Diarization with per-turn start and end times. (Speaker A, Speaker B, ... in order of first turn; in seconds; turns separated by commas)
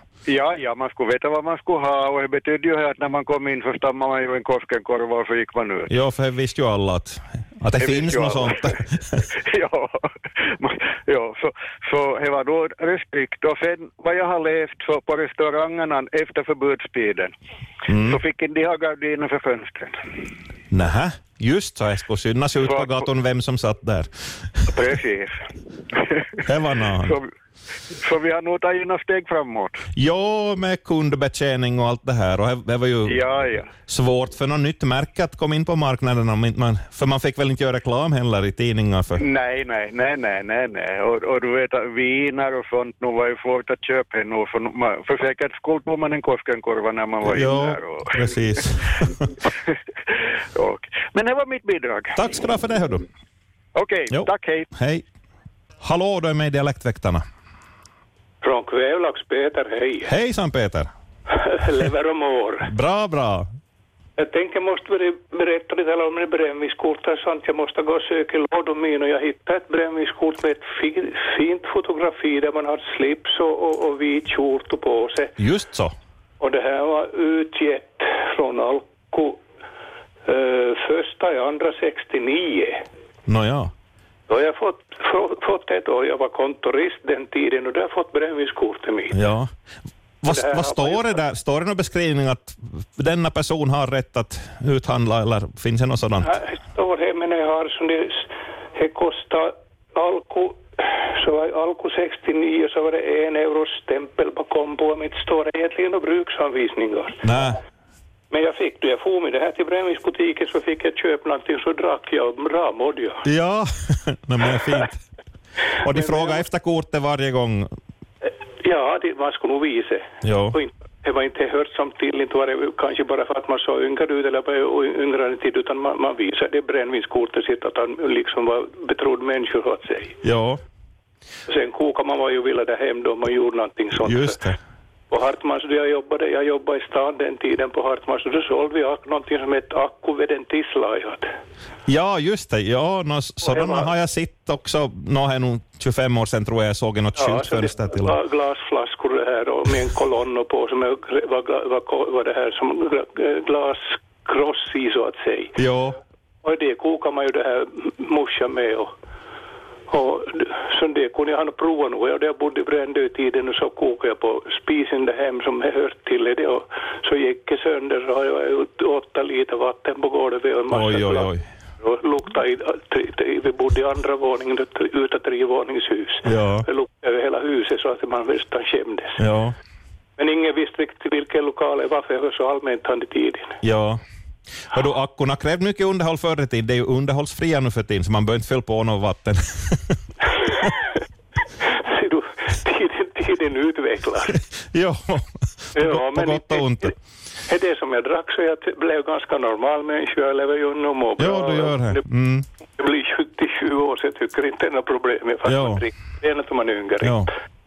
Speaker A: 0.3-5.9, Speaker B: 5.9-9.2, Speaker A: 7.8-8.8, Speaker A: 9.3-17.3, Speaker B: 17.9-18.2, Speaker A: 18.0-20.0, Speaker B: 20.7-24.7, Speaker A: 22.7-23.0, Speaker A: 24.7-25.4, Speaker A: 25.9-26.4, Speaker B: 26.4-27.2, Speaker A: 27.0-27.3, Speaker A: 28.0-29.8, Speaker B: 29.9-39.2, Speaker A: 33.0-33.7, Speaker A: 39.2-48.3, Speaker B: 47.2-49.3, Speaker A: 49.7-52.2, Speaker B: 52.1-53.0, Speaker A: 53.7-54.7, Speaker B: 54.1-55.0, Speaker B: 55.8-57.2, Speaker C: 58.4-60.1, Speaker B: 60.0-60.9, Speaker C: 61.4-62.7, Speaker B: 62.6-63.5, Speaker C: 64.2-75.3, Speaker B: 75.4-75.9, Speaker C: 76.4-79.4, Speaker C: 80.2-82.8, Speaker B: 83.3-83.7, Speaker C: 84.3-89.2, Speaker B: 89.1-89.5, Speaker B: 90.2-96.3, Speaker C: 90.3-91.2, Speaker C: 96.2-107.2, Speaker B: 107.2-107.6, Speaker C: 108.3-113.2, Speaker B: 113.2-114.9, Speaker B: 115.8-117.7, Speaker C: 115.9-116.4, Speaker C: 118.6-130.2, Speaker B: 120.2-120.6, Speaker B: 130.2-130.6, Speaker C: 131.5-134.4, Speaker B: 134.0-134.6, Speaker C: 135.1-141.3, Speaker B: 141.9-148.1, Speaker C: 143.5-143.8, Speaker C: 147.2-155.5, Speaker B: 155.6-155.9, Speaker C: 156.4-158.9, Speaker C: 159.9-171.3, Speaker B: 170.7-171.4, Speaker C: 171.8-179.2, Speaker B: 176.2-176.7, Speaker B: 179.2-179.5, Speaker C: 180.2-183.6, Speaker B: 183.6-184.0, Speaker B: 184.7-190.0, Speaker C: 191.6-194.4, Speaker B: 194.7-196.9, Speaker C: 195.8-196.9, Speaker C: 197.5-202.0, Speaker B: 201.2-202.4, Speaker C: 202.8-207.2, Speaker B: 205.4-205.8, Speaker B: 207.0-207.3